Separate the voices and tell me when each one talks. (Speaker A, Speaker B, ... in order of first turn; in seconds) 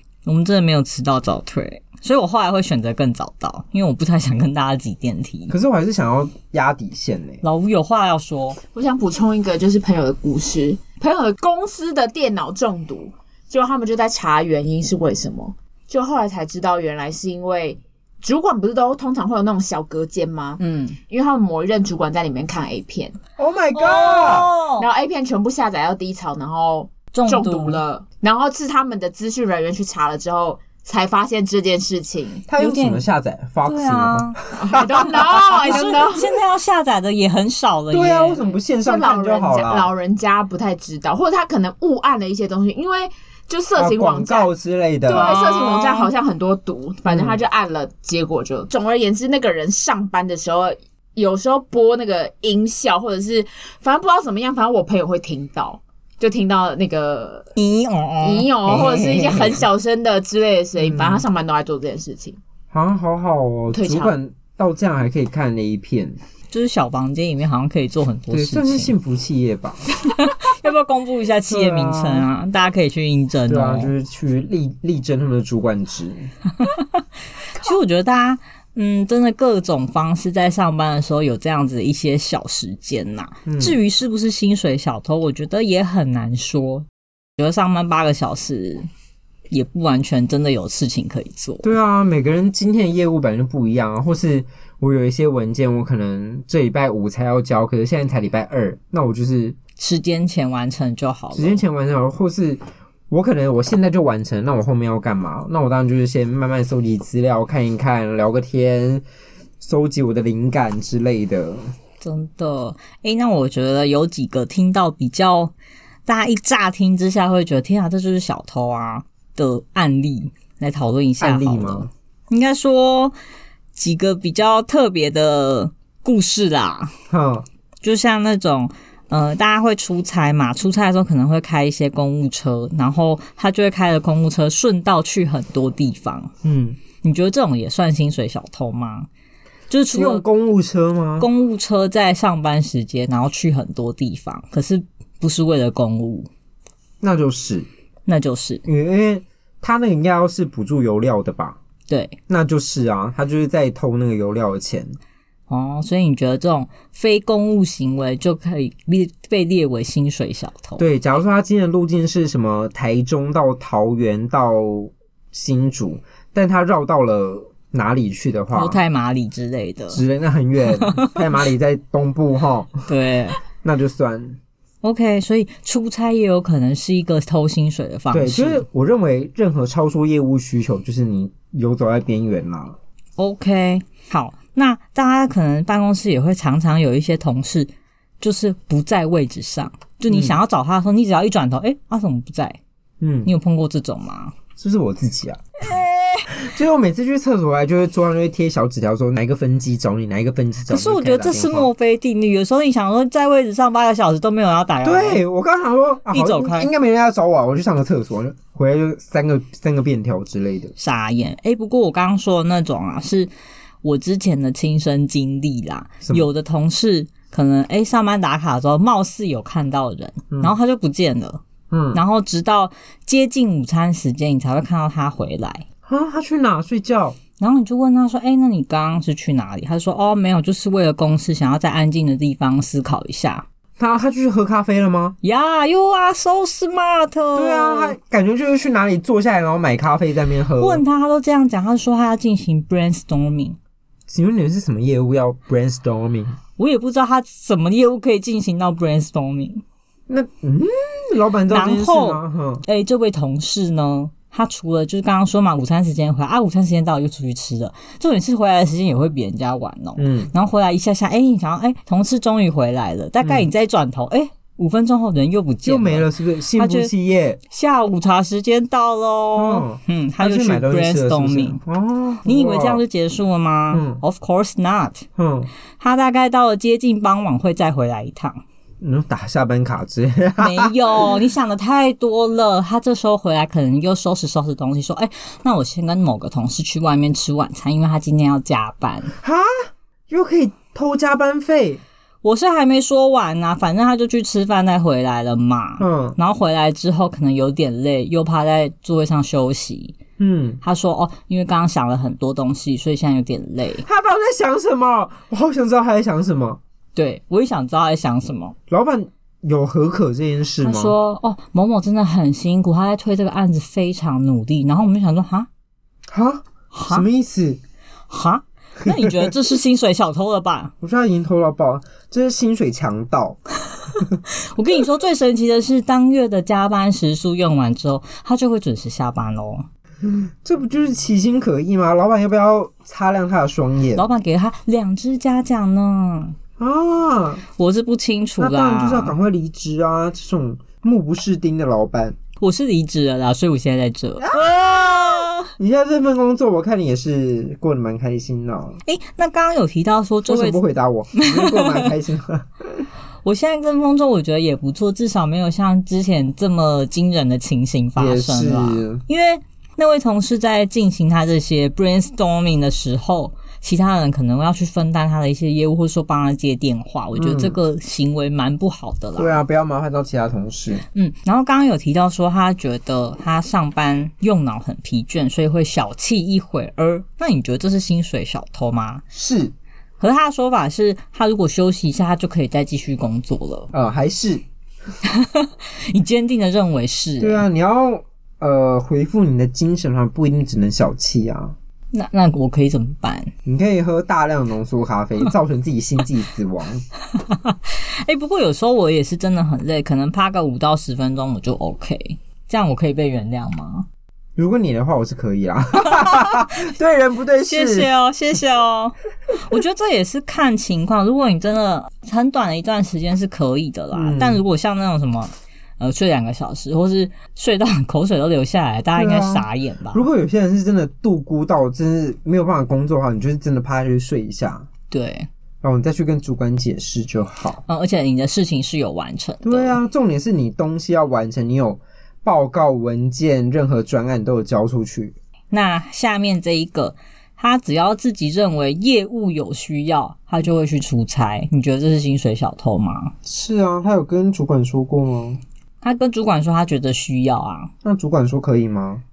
Speaker A: 0.2-5.5, 7.4-8.6, 20.6-21.0, 23.7-24.9, 27.1-27.8, 32.6-33.0, 33.6-34.4, 35.0-38.4, 45.1-46.1, 57.6-58.9, 66.5-68.9, 70.1-73.9, 77.5-86.9, 87.4-88.9, 89.5-91.7, 99.8-101.6, 112.0-115.5, 116.1-123.2, 123.7-126.9, 127.8-136.3, 137.0-139.1, 139.7-140.2, 141.2-146.3, 148.1-148.6, 151.9-152.2, 155.5-160.8, 168.5-170.0, 170.8-171.2, 172.9-173.4, 174.8-178.6, 183.2-192.6, 193.2-194.3, 195.6-196.3, 200.7-205.2, 206.1-206.7, 210.8-213.3, 213.8-221.4, 221.9-225.7, 227.4-233.5, 235.2-238.0, 240.6-243.6, 246.6-249.6, 251.5-266.9, 267.5-271.6, 272.2-275.1, 275.8-278.4, 280.4-289.1, 292.2-300.0, 300.6-303.9, 307.0-308.6, 310.6-315.5, 316.7-317.1, 318.1-320.7, 324.4-329.7, 333.9-336.4, 337.6-339.1, 342.4-345.5, 348.9-350.6, 351.1-351.9, 353.2-369.4, 370.9-379.0, 380.0-383.7, 385.0-387.5, 391.9-393.3, 397.1-403.9, 405.9-406.4, 407.4-420.1, 424.9-425.3, 427.7-429.8, 435.5-443.1, 445.8-447.7
Speaker B: 5.5-7.4, 23.4-24.5, 32.5-35.9, 37.9-39.9, 43.8-45.4, 47.1-47.4, 58.7-59.6, 60.8-61.2, 62.7-66.2, 68.3-69.8, 71.5-72.3, 73.5-76.3, 83.5-83.8, 91.6-99.6, 101.3-109.0, 109.6-111.7, 121.2-121.9, 127.1-127.5, 136.4-136.8, 139.9-141.3, 147.0-147.7, 148.7-151.6, 152.3-155.0, 160.8-168.8, 169.9-172.7, 173.6-174.4, 178.1-182.8, 190.1-190.4, 193.0-193.3, 194.6-195.4, 196.3-201.7, 204.8-210.7, 220.3-220.6, 221.7-222.0, 225.9-227.2, 233.8-235.2, 237.3-240.8, 244.1-246.4, 250.1-252.6, 260.0-260.3, 263.2-263.5, 265.6-267.4, 269.4-272.8, 273.7-274.0, 275.2-275.5, 278.8-281.1, 289.2-291.8, 295.8-296.2, 300.2-300.6, 303.8-306.6, 308.7-310.9, 316.1-317.6, 318.9-319.3, 320.8-323.4, 330.0-334.1, 336.6-337.4, 338.4-342.2, 344.2-345.0, 345.6-348.8, 350.3-352.9, 358.0-359.0, 367.2-367.6, 369.2-370.8, 379.1-379.5, 383.7-384.4, 387.2-391.6, 393.4-396.8, 404.4-407.9, 413.9-414.4, 419.0-424.7, 425.6-427.6, 429.4-435.1, 443.2-445.4, 447.8-449.0
Speaker C: 8.7-23.2, 24.8-32.5, 34.6-36.4, 38.7-44.5, 45.1-57.5, 58.2-62.4, 63.7-64.1